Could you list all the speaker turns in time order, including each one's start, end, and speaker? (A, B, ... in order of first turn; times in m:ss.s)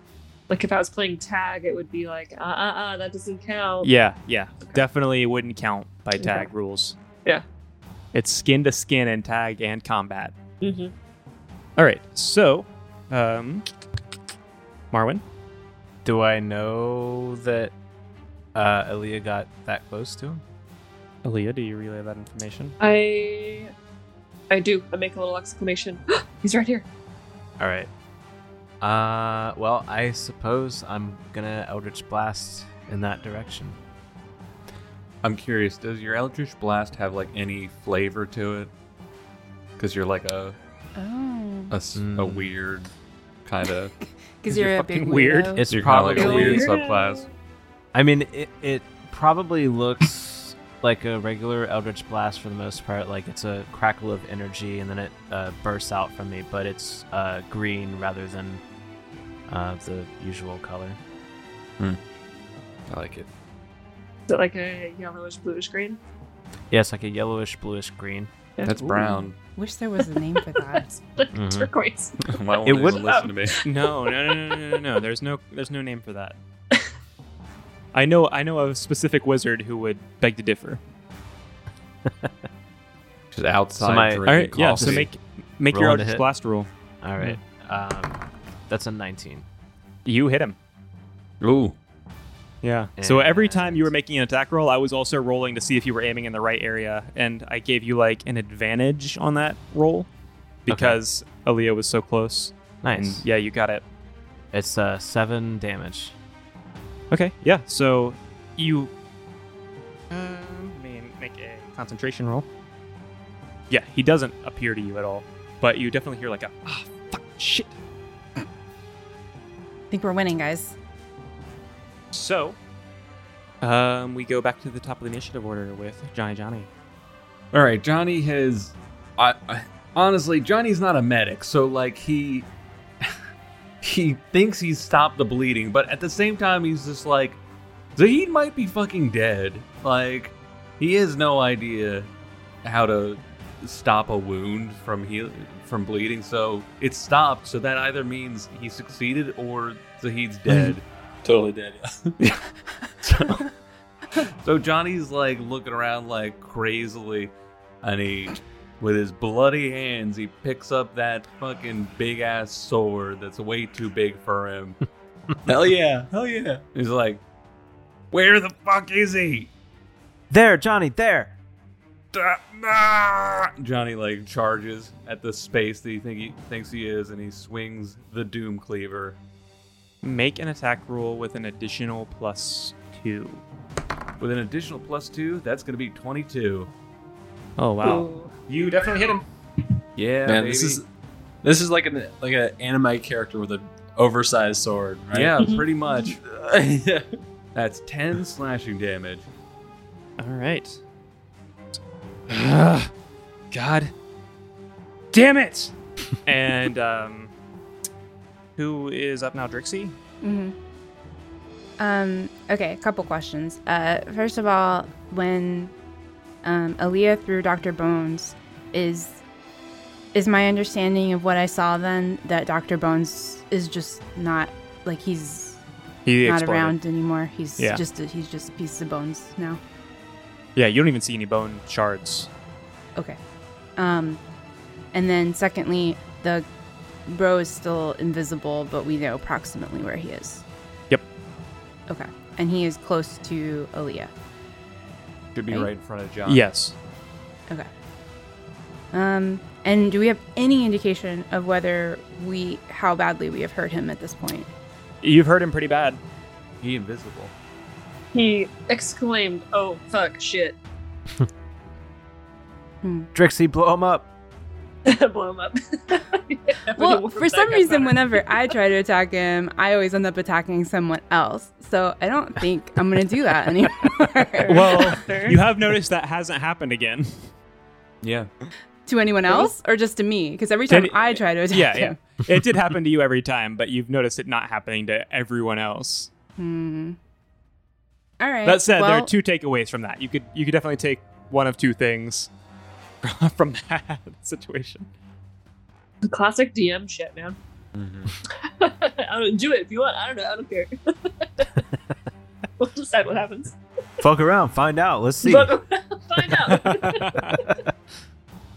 0:00.5-0:03.9 A
0:03.8-0:07.0 B
0:06.2-0:06.5 A
0:08.1-0:10.4 B
0:10.6-0:10.9 A
0:11.8-0:13.6 B
0:14.9-0:15.2 B
0:16.0-0:17.7 C
0:18.5-0:20.4 C
0:21.2-0:22.8 B
0:22.8-0:23.7 A
0:24.5-0:26.8 A
0:27.6-0:27.9 C
0:28.8-0:33.8 C
0:35.2-0:38.7 D
0:39.8-0:40.6 D
0:41.0-0:41.8 E
0:41.7-0:42.9 D
0:41.9-0:42.5 C
0:43.4-0:43.9 D
0:44.0-0:45.7 E
0:44.5-0:45.6 B
0:45.6-0:46.7 C
0:45.7-0:47.2 D
0:46.1-0:47.3 A
0:47.9-0:58.6 C
0:59.5-1:01.0 C
1:02.9-1:03.3 D
1:04.3-1:06.0 A
1:06.7-1:08.3 C
1:08.6-1:09.1 A
1:08.6-1:09.4 D
1:09.0-1:11.0 E
1:10.0-1:14.8 A
1:11.3-1:11.7 C
1:12.3-1:13.6 D
1:12.6-1:13.1 C
1:13.6-1:16.4 B
1:17.9-1:20.8 B
1:22.0-1:22.3 C
1:23.3-1:25.1 D
1:23.8-1:25.1 C
1:24.2-1:27.4 B
1:25.7-1:26.2 C
1:27.0-1:29.4 C
1:30.0-1:30.6 B
1:31.4-1:31.8 D
1:32.6-1:40.1 B
1:33.0-1:33.9 C
1:40.6-1:43.8 B
1:40.7-1:41.0 C
1:42.8-1:43.2 C
1:44.5-1:46.1 C
1:47.1-1:48.9 B
1:50.1-1:52.4 B
1:53.7-1:57.8 B
1:59.9-2:00.7 E
2:02.1-2:02.6 B
2:03.6-2:06.7 B
2:07.5-2:12.5 D
2:13.8-2:17.4 D
2:18.0-2:22.1 D
2:22.6-2:30.8 D
2:31.2-2:32.1 F
2:32.2-2:32.4 D
2:33.0-2:33.4 D
2:34.2-2:44.8 D
2:45.4-2:46.6 F
2:46.7-2:47.2 D
2:48.1-2:49.5 D
2:50.3-2:51.3 C
2:52.1-2:59.2 D
3:00.0-3:03.4 B
3:04.2-3:06.7 D
3:07.6-3:09.2 B
3:07.8-3:08.3 A
3:10.0-3:10.8 D
3:10.2-3:10.8 F
3:11.4-3:15.3 F
3:15.1-3:16.2 D
3:15.4-3:15.7 A
3:16.2-3:17.1 F
3:17.5-3:19.3 D
3:20.2-3:20.8 B
3:22.3-3:22.9 B
3:23.5-3:23.9 B
3:25.1-3:25.7 B
3:26.2-3:27.3 B
3:28.6-3:29.9 B
3:30.2-3:30.5 E
3:31.8-3:35.7 E
3:36.4-3:39.2 E
3:40.1-3:45.6 E
3:46.0-3:46.8 B
3:46.2-3:49.6 E
3:50.6-3:52.3 B
3:53.8-3:54.2 E
3:54.9-3:56.4 E
3:57.1-4:00.4 E
4:01.9-4:04.1 E
4:05.4-4:06.4 D
4:06.2-4:06.7 B
4:08.9-4:14.5 E
4:15.0-4:16.0 B
4:16.6-4:17.3 D
4:18.1-4:20.6 A
4:22.8-4:23.1 E
4:23.1-4:24.1 C
4:24.8-4:28.4 A
4:26.8-4:34.9 E
4:34.4-4:35.4 A
4:34.5-4:37.3 B
4:38.0-4:38.3 D
4:38.9-4:42.0 E
4:40.7-4:46.1 B
4:46.4-4:47.0 E
4:48.2-4:49.1 E
4:48.4-4:52.3 B
4:53.0-4:54.9 B
4:56.0-4:57.4 A
4:57.7-4:58.1 D
4:58.3-5:01.6 A
5:02.6-5:03.6 A
5:04.0-5:05.6 C
5:05.2-5:07.6 A
5:06.5-5:07.3 B